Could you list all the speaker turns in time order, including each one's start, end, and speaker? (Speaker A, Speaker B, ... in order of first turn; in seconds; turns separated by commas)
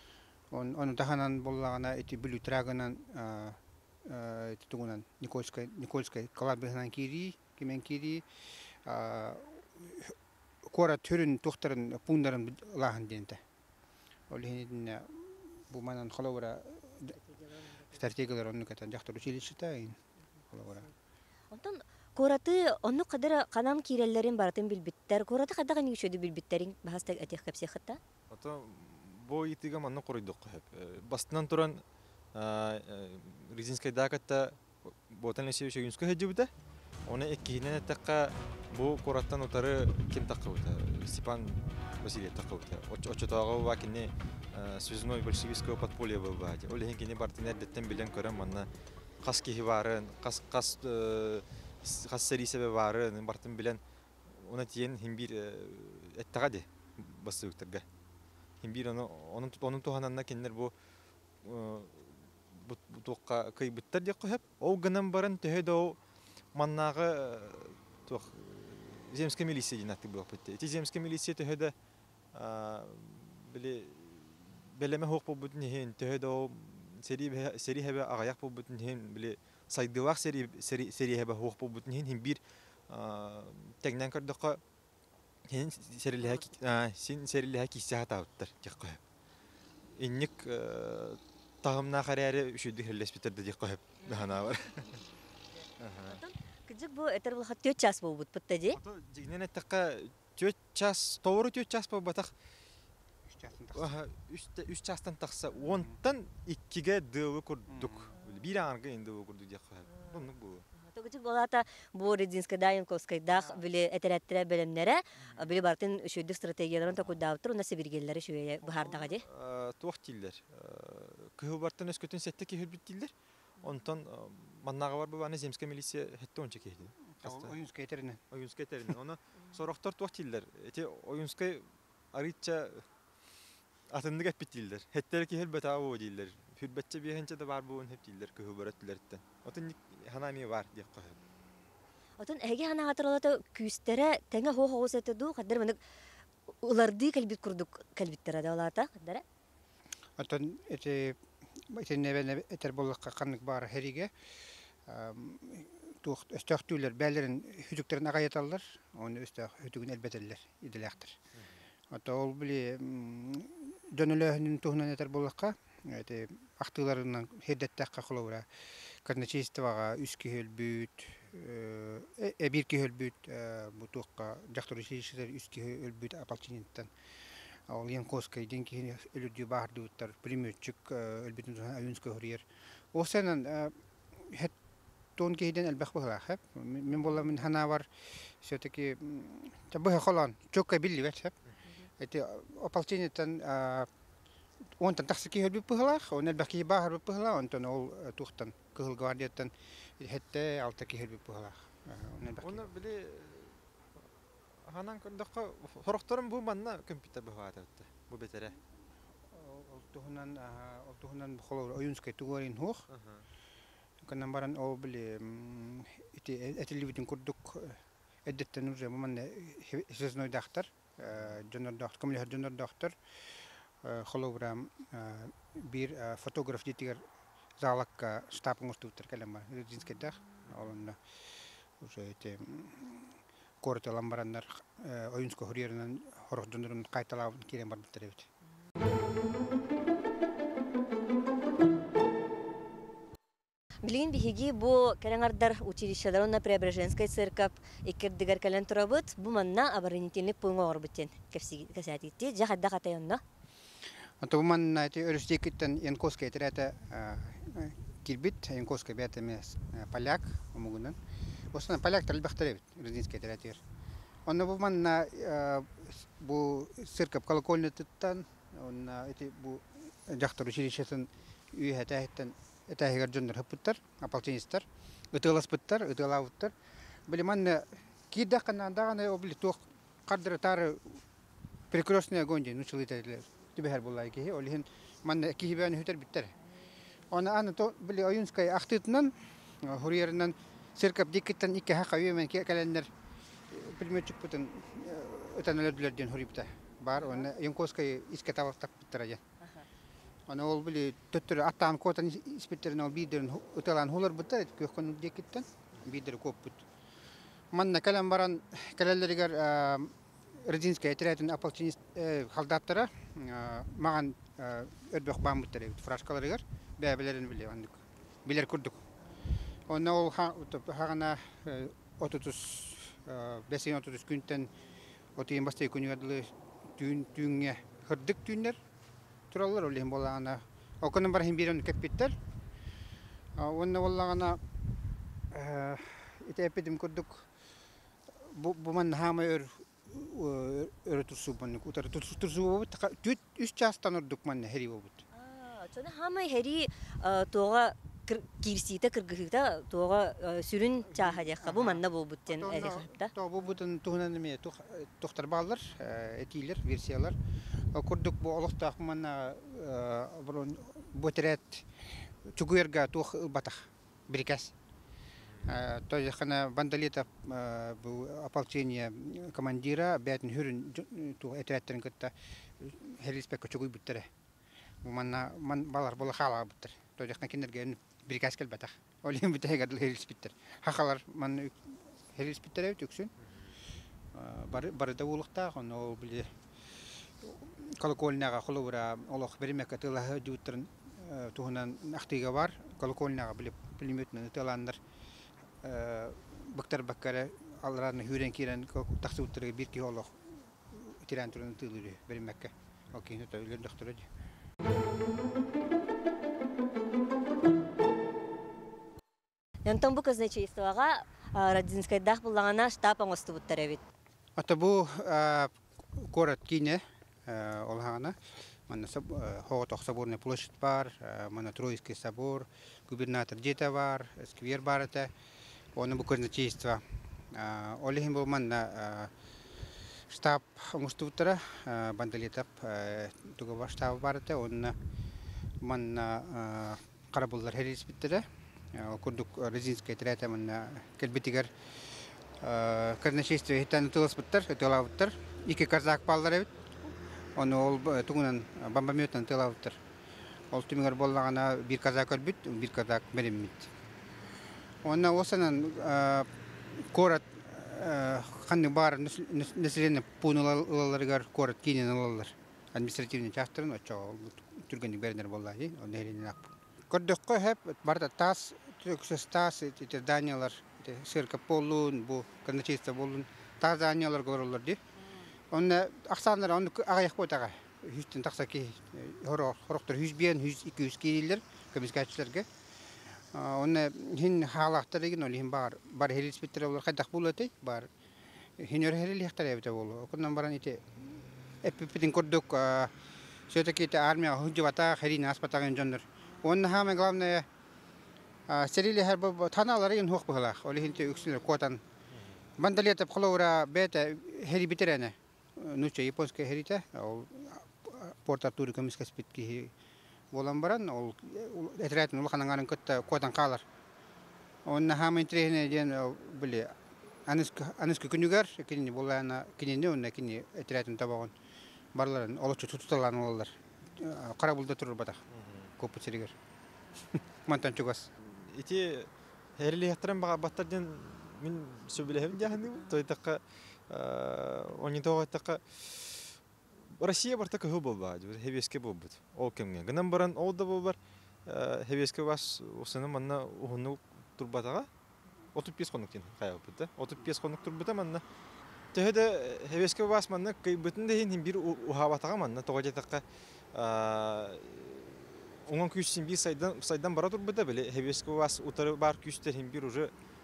Speaker A: 0.5-8.2, Speaker A: 8.8-10.2, Speaker A: 10.7-13.4, Speaker A: 14.3-17.2, Speaker A: 17.9-20.0, Speaker A: 20.5-20.9, Speaker B: 21.5-28.0, Speaker C: 28.3-31.8, Speaker C: 32.4-36.5, Speaker C: 37.1-48.7, Speaker C: 49.2-57.9, Speaker C: 58.6-60.7, Speaker C: 61.4-66.0, Speaker C: 66.5-71.7, Speaker C: 72.3-84.6, Speaker C: 85.5-89.0, Speaker C: 90.0-95.0, Speaker C: 95.8-96.2, Speaker B: 96.1-98.8, Speaker C: 98.7-102.3, Speaker A: 103.3-104.0, Speaker C: 103.7-110.7, Speaker A: 107.7-108.1, Speaker B: 110.8-119.2, Speaker C: 118.7-127.5, Speaker A: 127.2-128.2, Speaker C: 128.3-132.9, Speaker C: 133.9-141.2, Speaker B: 142.2-145.8, Speaker B: 146.6-149.2, Speaker A: 150.2-154.1, Speaker A: 154.9-161.2, Speaker A: 161.9-176.9, Speaker A: 177.7-184.5, Speaker A: 185.2-191.3, Speaker A: 192.0-193.9, Speaker A: 194.8-202.7, Speaker C: 202.4-203.6, Speaker C: 204.7-208.6, Speaker A: 209.3-212.8, Speaker C: 212.9-213.2, Speaker A: 214.0-223.0, Speaker A: 223.8-227.0, Speaker A: 227.6-231.0, Speaker A: 231.8-238.3, Speaker B: 243.8-253.2, Speaker A: 254.2-261.0, Speaker A: 261.5-263.6, Speaker A: 264.3-276.5, Speaker A: 277.1-281.0, Speaker A: 281.7-286.3, Speaker A: 287.1-292.9, Speaker A: 293.5-299.2, Speaker A: 300.3-306.6, Speaker A: 307.5-318.8, Speaker A: 319.7-324.5, Speaker A: 325.2-328.6, Speaker A: 329.3-332.2, Speaker A: 333.4-334.4, Speaker A: 335.3-337.3, Speaker A: 338.1-345.0, Speaker B: 345.1-353.1, Speaker A: 350.9-361.7, Speaker A: 362.2-364.5, Speaker A: 365.4-374.1, Speaker A: 374.8-383.1, Speaker A: 384.1-386.3, Speaker A: 386.9-394.8, Speaker A: 395.6-404.1, Speaker B: 409.6-413.8, Speaker A: 414.4-418.2, Speaker A: 418.7-425.1, Speaker A: 425.8-429.1, Speaker A: 430.1-434.8, Speaker A: 435.6-446.5, Speaker A: 447.4-449.8, Speaker A: 450.5-453.7, Speaker A: 454.8-474.8, Speaker A: 475.5-482.5, Speaker A: 483.3-487.9, Speaker A: 488.6-492.9, Speaker A: 493.5-497.5, Speaker A: 498.5-501.8, Speaker C: 502.1-502.4, Speaker A: 502.6-509.7, Speaker A: 510.3-513.6, Speaker A: 514.7-516.8, Speaker A: 517.3-521.3, Speaker A: 522.0-525.2, Speaker C: 525.3-525.7, Speaker A: 525.8-526.4, Speaker A: 527.0-528.1, Speaker C: 528.2-536.4, Speaker C: 537.0-544.9, Speaker C: 545.5-548.2, Speaker C: 548.9-560.1